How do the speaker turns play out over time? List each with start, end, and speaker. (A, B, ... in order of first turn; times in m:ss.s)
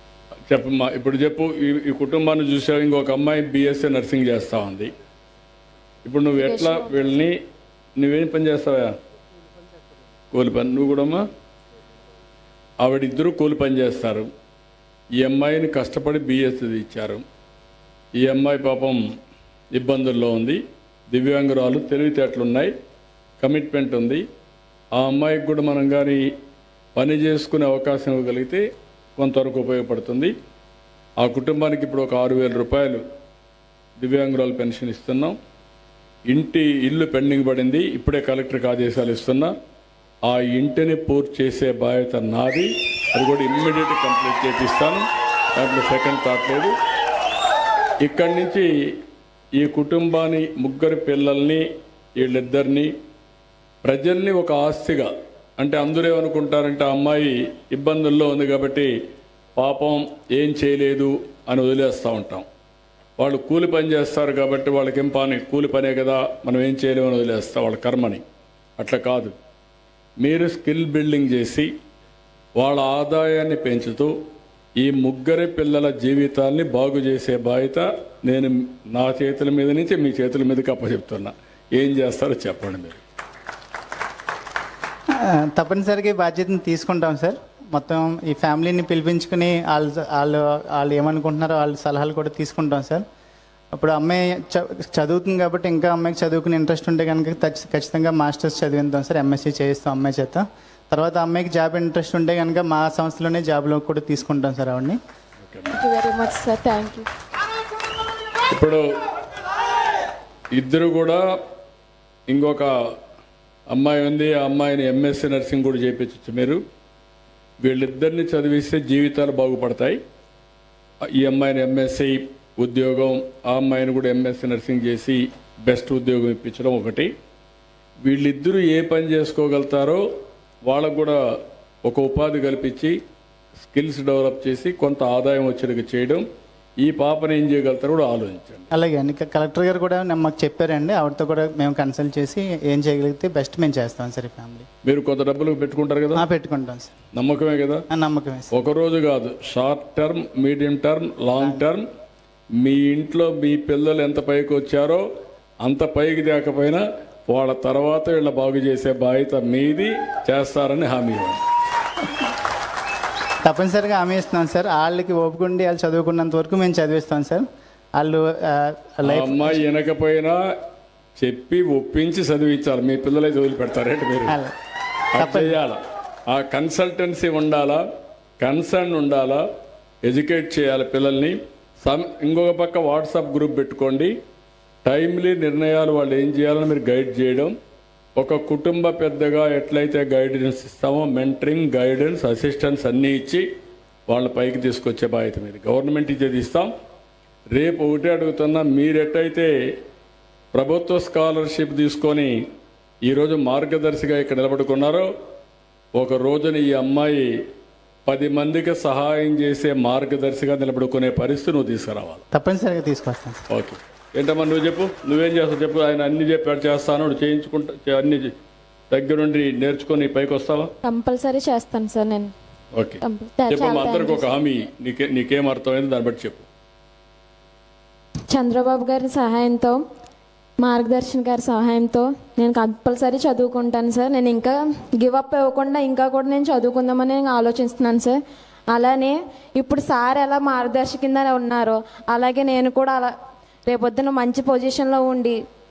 0:00.5-0:04.9 A
0:06.0-0:07.4 A
0:06.4-0:07.0 B
0:08.0-0:08.9 A
0:10.3-0:11.3 A
0:12.8-0:14.3 A
0:15.2-0:17.2 A
0:18.2-0:19.0 A
0:19.7-0:22.7 A
0:23.4-0:24.2 A
0:24.9-0:26.3 A
0:26.9-0:28.6 A
0:29.2-0:30.3 A
0:31.2-0:33.0 A
0:34.0-0:35.4 A
0:36.3-0:39.5 A
0:40.3-0:46.7 A
0:48.0-0:48.9 A
0:49.6-0:52.9 A
0:53.8-0:58.9 A
0:59.6-1:02.4 A
1:03.2-1:08.2 A
1:08.8-1:09.3 A
1:10.2-1:11.7 A
1:12.6-1:14.1 A
1:14.8-1:23.0 A
1:25.1-1:33.0 C
1:33.7-1:45.0 C
1:45.4-1:45.7 A
1:45.7-1:47.1 B
1:48.5-1:48.8 A
1:50.5-1:51.2 A
1:52.3-1:52.7 A
1:53.7-1:56.6 A
1:57.6-2:00.0 A
2:01.1-2:07.1 A
2:08.0-2:10.0 A
2:10.7-2:11.2 A
2:11.8-2:13.0 A
2:13.6-2:16.2 A
2:16.8-2:18.7 A
2:18.7-2:24.6 C
2:24.8-2:26.2 A
2:26.1-2:26.9 C
2:27.1-2:27.8 A
2:27.9-2:28.5 C
2:28.5-2:31.8 A
2:32.6-2:35.0 A
2:35.6-2:41.4 A
2:43.4-2:47.4 C
2:48.0-2:49.6 C
2:49.0-2:50.4 A
2:51.2-2:54.4 A
2:54.3-2:54.5 C
2:55.1-2:57.8 A
2:55.2-2:55.6 C
2:58.4-2:59.4 A
3:00.0-3:04.1 A
3:04.8-3:07.5 A
3:08.2-3:13.4 A
3:14.1-3:16.7 A
3:17.5-3:19.5 A
3:20.5-3:22.4 A
3:23.0-3:25.1 A
3:26.0-3:27.4 A
3:28.0-3:32.2 A
3:32.3-3:33.4 C
3:33.5-3:38.3 A
3:38.9-3:40.7 A
3:40.8-3:42.3 B
3:42.7-3:46.5 A
3:43.0-3:44.2 B
3:48.3-3:49.8 B
3:50.6-3:58.2 B
3:58.7-4:03.1 B
4:03.6-4:05.4 B